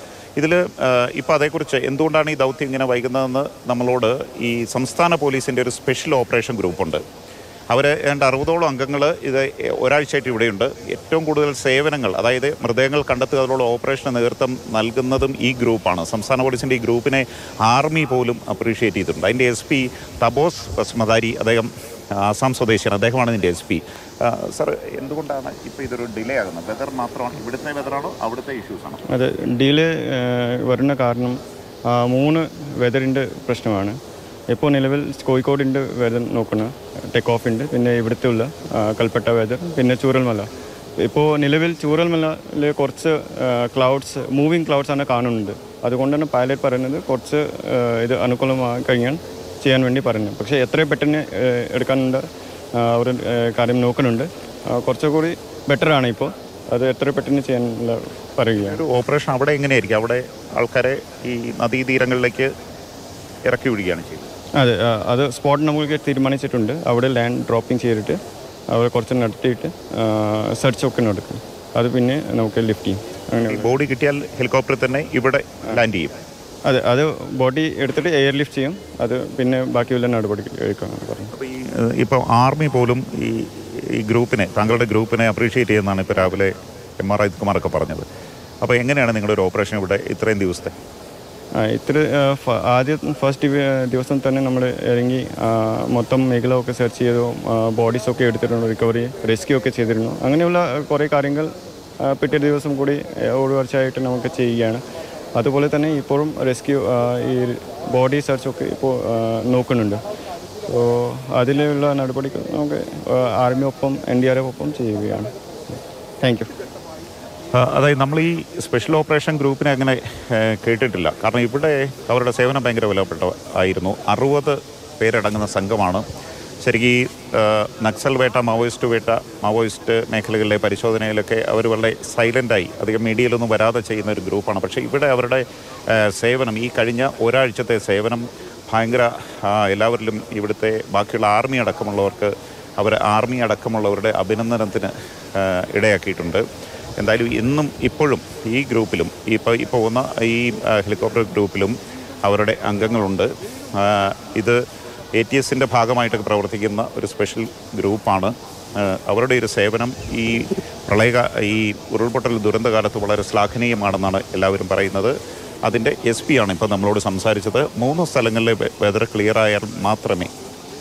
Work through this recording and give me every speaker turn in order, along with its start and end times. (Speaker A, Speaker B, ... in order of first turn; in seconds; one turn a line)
Speaker A: 0.4-7.0
Speaker A: 7.7-29.0
Speaker B: 29.1-34.0
Speaker B: 34.5-58.8
Speaker A: 58.6-62.5
Speaker A: 63.5-64.3
Speaker B: 64.6-68.2
Speaker B: 68.7-73.8
Speaker A: 73.5-76.1
Speaker B: 76.7-81.3
Speaker A: 81.3-88.1
Speaker A: 88.6-90.7
Speaker B: 91.6-101.5
Speaker B: 102.0-104.8
Speaker B: 105.4-110.0
Speaker B: 110.7-116.5
Speaker A: 117.5-126.0
Speaker A: 126.6-146.4
Speaker A: 147.0-154.6
Speaker A: 155.2-170.3